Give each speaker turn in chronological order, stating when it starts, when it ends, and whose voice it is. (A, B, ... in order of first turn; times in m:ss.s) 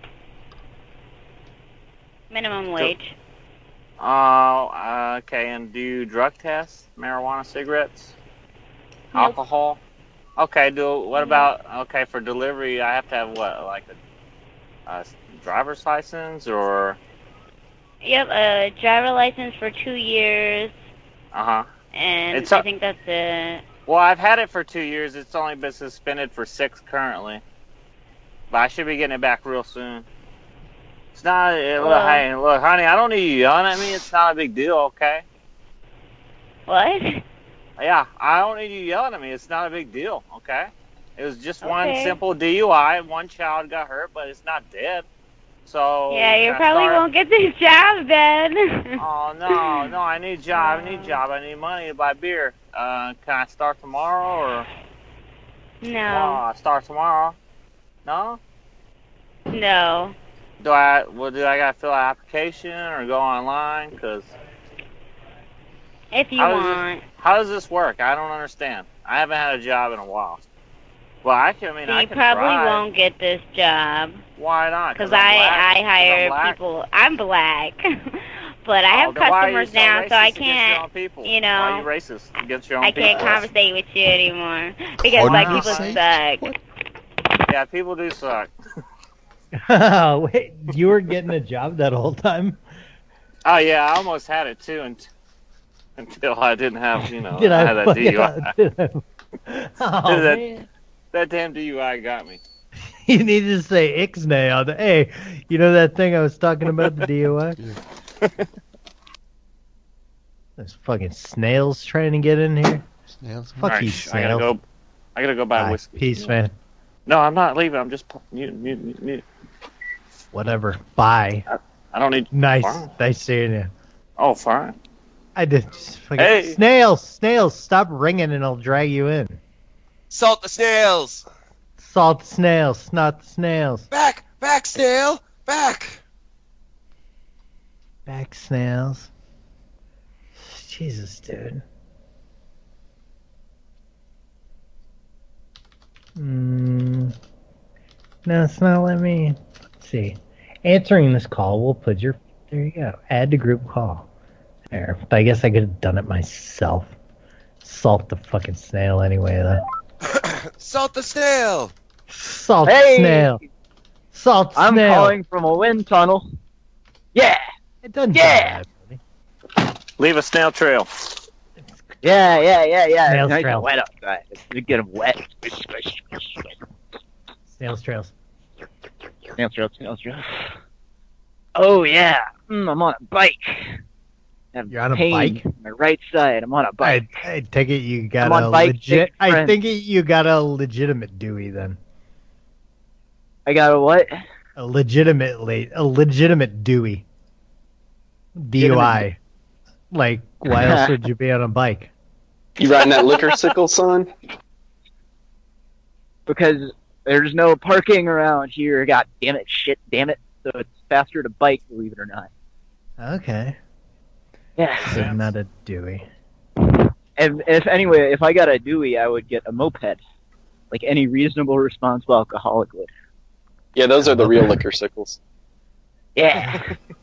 0:02.3-0:03.1 A
0:04.0-0:08.2 B
0:09.1-0:09.4 A
0:09.1-0:09.8 B
0:10.4-0:14.0 B
0:11.1-0:11.5 A
0:14.9-0:17.0 B
0:18.0-0:20.8 A
0:21.3-0:21.7 B
0:21.9-0:23.6 A
0:22.3-0:22.6 B
0:23.8-0:27.4 B
0:28.5-0:30.0 B
0:31.1-0:35.2 B
0:31.8-0:32.2 A
0:36.7-0:37.2 A
0:37.8-0:45.0 B
0:41.6-0:42.2 A
0:45.6-0:47.0 B
0:46.1-0:49.9 A
0:49.0-0:54.7 B
0:50.5-0:51.2 A
0:55.8-0:56.4 A
0:56.1-0:57.4 B
0:58.0-0:58.4 B
0:59.5-1:00.1 A
1:00.6-1:04.3 B
1:06.1-1:07.0 A
1:06.4-1:10.4 B
1:11.2-1:12.8 B
1:11.8-1:14.2 A
1:14.4-1:16.6 B
1:15.0-1:21.9 A
1:18.9-1:23.5 B
1:22.8-1:26.4 A
1:25.2-1:26.6 C
1:25.2-1:26.0 B
1:27.5-1:28.5 B
1:29.6-1:32.6 D
1:33.4-1:35.1 B
1:36.0-1:38.5 B
1:37.3-1:40.6 D
1:40.0-1:40.4 B
1:41.1-1:42.4 B
1:43.0-1:47.6 D
1:50.6-1:52.8 D
1:53.2-1:53.9 C
1:53.6-1:54.5 D
1:53.6-1:54.6 B
1:55.2-1:56.3 B
1:55.6-1:56.5 D
1:57.1-1:59.2 B
2:00.3-2:01.4 D
2:01.5-2:02.9 B
2:02.3-2:03.7 D
2:04.2-2:04.8 B
2:05.4-2:09.4 D
2:06.2-2:06.6 B
2:10.1-2:11.2 E
2:11.8-2:13.9 D
2:13.9-2:16.0 E
2:18.0-2:19.1 D
2:20.4-2:21.6 D
2:26.2-2:27.1 D
2:28.2-2:34.1 D
2:34.7-2:36.9 D
2:37.6-2:39.6 D
2:40.0-2:41.7 E
2:42.1-2:43.4 D
2:42.6-2:43.4 F
2:44.1-2:45.2 D
2:44.6-2:46.2 F
2:47.1-2:47.4 F
2:47.8-2:49.0 D
2:48.1-2:48.6 F
2:50.0-2:50.9 B
2:52.0-2:56.4 F
2:53.0-2:53.7 D
2:57.6-2:58.1 D
2:59.4-3:00.5 F
3:01.5-3:03.8 F
3:04.5-3:07.1 F
3:04.7-3:05.4 D
3:06.8-3:11.8 D
3:08.2-3:09.6 F
3:13.4-3:14.2 F
3:14.6-3:17.0 D
3:18.4-3:19.2 D
3:18.6-3:19.0 F
3:19.9-3:21.9 D
3:20.5-3:21.0 F
3:22.6-3:24.1 G
3:26.3-3:32.3 F
3:33.0-3:33.6 D
3:34.6-3:35.1 F
3:34.8-3:35.2 B
3:34.8-3:36.0 D
3:37.2-3:40.0 F
3:40.7-3:42.9 F
3:43.8-3:45.2 G
3:44.0-3:44.6 D
3:46.2-3:46.7 F
3:46.4-3:46.6 D